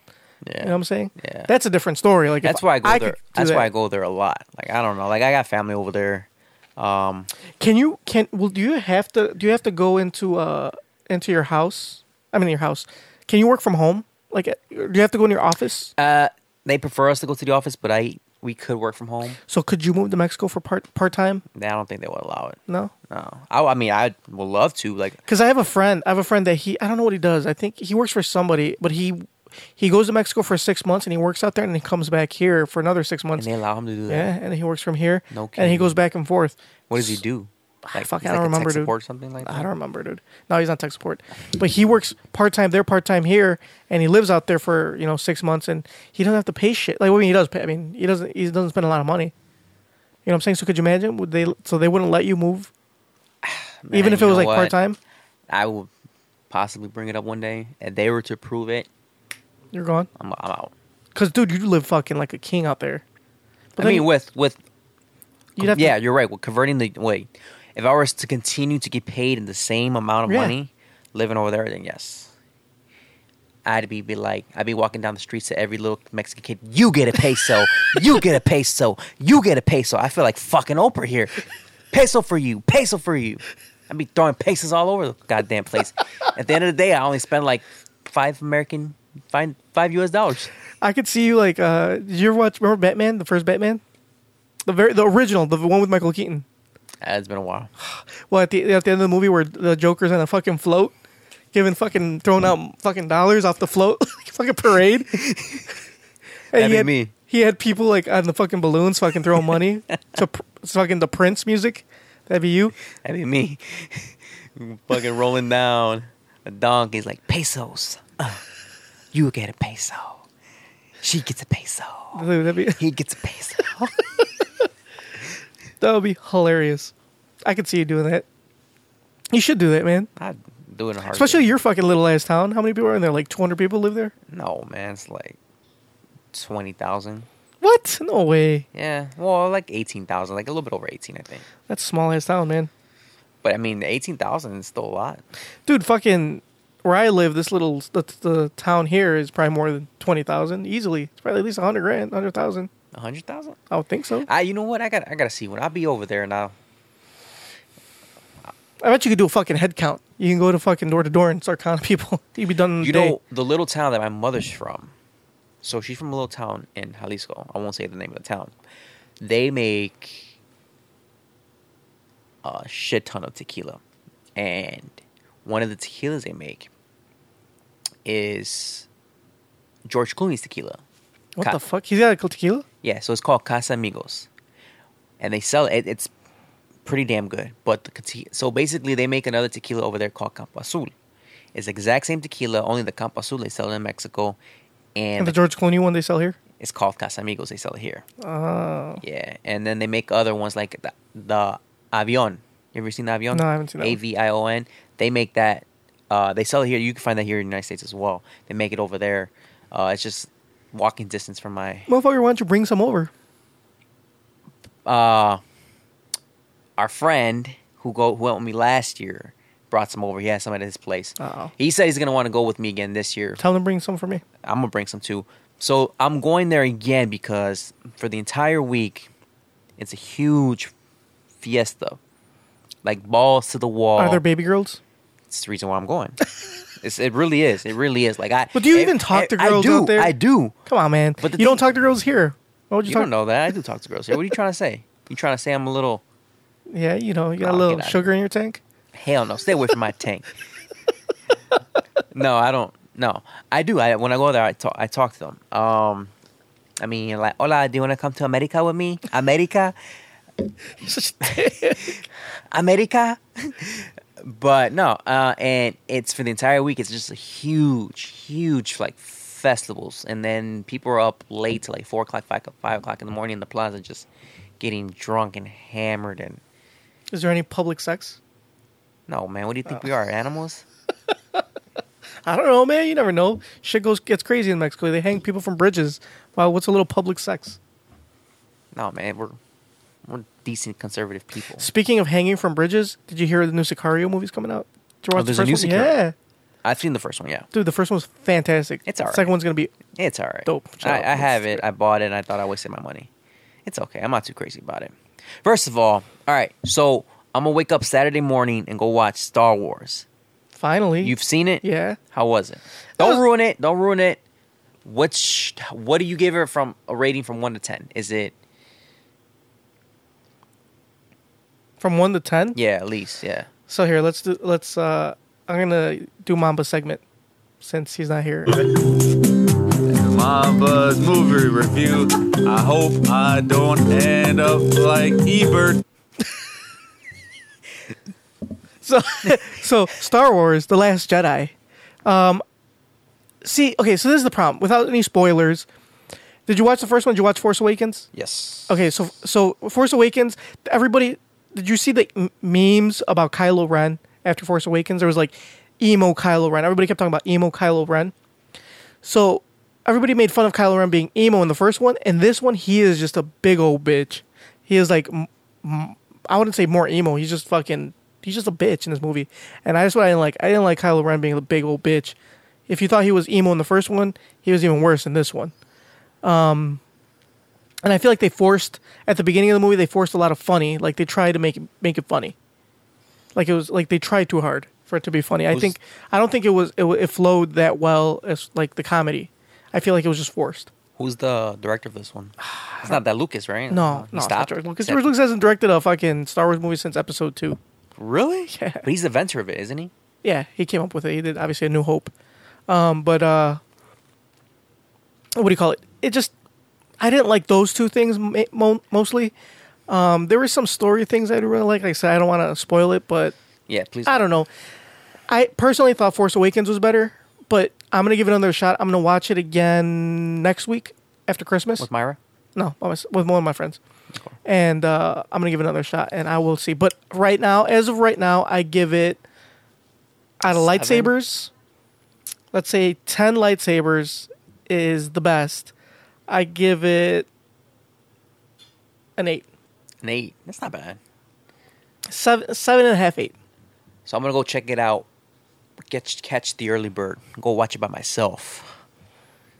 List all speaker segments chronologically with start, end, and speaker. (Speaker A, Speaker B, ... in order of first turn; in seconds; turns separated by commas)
Speaker A: 0.4-1.5, Speaker B: 0.6-3.7, Speaker A: 2.4-7.3, Speaker B: 7.6-15.9, Speaker A: 15.9-19.4, Speaker B: 19.5-21.4, Speaker A: 21.5-22.6, Speaker A: 23.1-25.2, Speaker B: 25.3-33.5, Speaker A: 33.4-34.3, Speaker B: 34.1-37.2, Speaker A: 35.3-36.0, Speaker A: 36.9-39.7, Speaker B: 37.9-49.3, Speaker B: 50.2-52.7, Speaker A: 53.4-54.8, Speaker B: 53.9-55.0, Speaker A: 55.5-55.9, Speaker A: 56.5-58.9, Speaker B: 59.7-60.1, Speaker A: 60.1-60.7, Speaker B: 61.1-63.0, Speaker B: 63.8-64.1, Speaker A: 63.8-64.6, Speaker B: 65.6-66.0, Speaker A: 65.6-72.3, Speaker B: 70.2-70.5, Speaker A: 73.6-90.5, Speaker B: 90.8-93.8, Speaker B: 94.6-96.4, Speaker A: 97.0-97.7, Speaker B: 97.9-100.9, Speaker B: 101.5-105.2, Speaker A: 105.1-105.6, Speaker B: 106.5-112.7, Speaker A: 106.5-107.1, Speaker A: 113.0-118.4, Speaker A: 119.1-120.2, Speaker A: 121.0-122.2, Speaker B: 122.1-122.8, Speaker A: 122.8-123.9, Speaker B: 125.8-126.9, Speaker B: 127.4-128.2, Speaker B: 129.3-130.1, Speaker A: 130.2-131.5, Speaker B: 131.1-134.1, Speaker A: 134.3-135.4, Speaker A: 136.3-137.3, Speaker B: 137.6-138.7, Speaker A: 138.7-141.4, Speaker B: 141.7-142.7, Speaker A: 143.4-145.2, Speaker B: 145.7-152.7, Speaker A: 152.9-153.6, Speaker B: 153.7-154.3, Speaker A: 154.2-156.5, Speaker B: 158.8-163.2, Speaker A: 162.8-164.9, Speaker A: 165.6-168.5, Speaker A: 169.2-170.3, Speaker A: 172.4-173.8, Speaker A: 174.3-176.7, Speaker A: 178.0-178.9, Speaker A: 179.8-180.8, Speaker B: 181.3-182.7, Speaker A: 182.8-184.3, Speaker A: 185.2-186.1, Speaker A: 186.8-190.9, Speaker A: 191.5-194.4, Speaker A: 194.9-195.4, Speaker B: 195.2-196.4, Speaker A: 196.6-198.0, Speaker B: 198.2-199.0, Speaker A: 199.0-211.9, Speaker B: 203.3-204.0, Speaker B: 211.9-213.1, Speaker A: 214.8-215.4, Speaker A: 216.8-223.4, Speaker B: 221.2-221.5, Speaker B: 223.4-224.2, Speaker A: 224.4-229.1, Speaker A: 229.8-230.7, Speaker A: 231.4-232.0, Speaker A: 232.8-234.2, Speaker B: 234.0-234.8, Speaker A: 235.3-236.2, Speaker A: 236.8-240.5, Speaker B: 238.5-240.1, Speaker B: 240.7-243.1, Speaker A: 241.2-241.6, Speaker A: 242.8-246.0, Speaker B: 246.7-248.6, Speaker A: 247.4-248.1, Speaker A: 248.9-250.3, Speaker A: 252.1-256.1, Speaker A: 256.8-259.7, Speaker B: 260.8-262.0, Speaker A: 261.2-274.1, Speaker A: 274.6-276.4, Speaker B: 277.1-278.2, Speaker A: 279.1-280.6, Speaker B: 282.2-287.6, Speaker A: 288.7-289.4, Speaker A: 290.0-291.7, Speaker B: 291.6-296.1, Speaker A: 295.1-296.0, Speaker A: 296.6-297.5, Speaker B: 297.5-299.7, Speaker A: 298.9-299.3, Speaker A: 299.9-303.1, Speaker B: 300.4-301.6, Speaker A: 303.6-310.1, Speaker B: 310.5-312.0, Speaker A: 311.0-314.2, Speaker A: 314.8-318.3, Speaker B: 321.8-322.6, Speaker A: 322.5-323.5, Speaker B: 323.7-327.0, Speaker B: 327.6-328.6, Speaker C: 330.2-331.9, Speaker C: 332.5-335.6, Speaker B: 338.8-341.5, Speaker B: 342.0-342.4, Speaker B: 343.4-345.7, Speaker B: 346.5-348.1, Speaker A: 348.1-348.8, Speaker B: 348.7-358.1, Speaker B: 359.0-372.1, Speaker B: 372.7-375.5, Speaker B: 376.2-376.8, Speaker B: 377.8-382.3, Speaker B: 383.3-390.7, Speaker A: 385.5-385.8, Speaker A: 391.0-395.1, Speaker B: 392.4-393.0, Speaker B: 393.7-397.6, Speaker A: 398.0-399.9, Speaker B: 398.5-398.8, Speaker B: 400.2-402.1, Speaker B: 402.7-403.6, Speaker B: 405.3-406.3, Speaker B: 407.0-409.3, Speaker B: 409.9-413.4, Speaker A: 413.7-414.2, Speaker B: 414.1-414.5, Speaker B: 415.3-421.9, Speaker A: 421.8-422.2, Speaker B: 422.5-423.8, Speaker B: 424.4-429.2, Speaker B: 430.4-431.5, Speaker A: 430.4-431.1, Speaker B: 432.5-435.7, Speaker B: 436.3-437.3, Speaker B: 439.2-439.5, Speaker A: 440.0-441.0, Speaker B: 442.1-443.3, Speaker A: 444.1-445.1, Speaker A: 445.9-448.8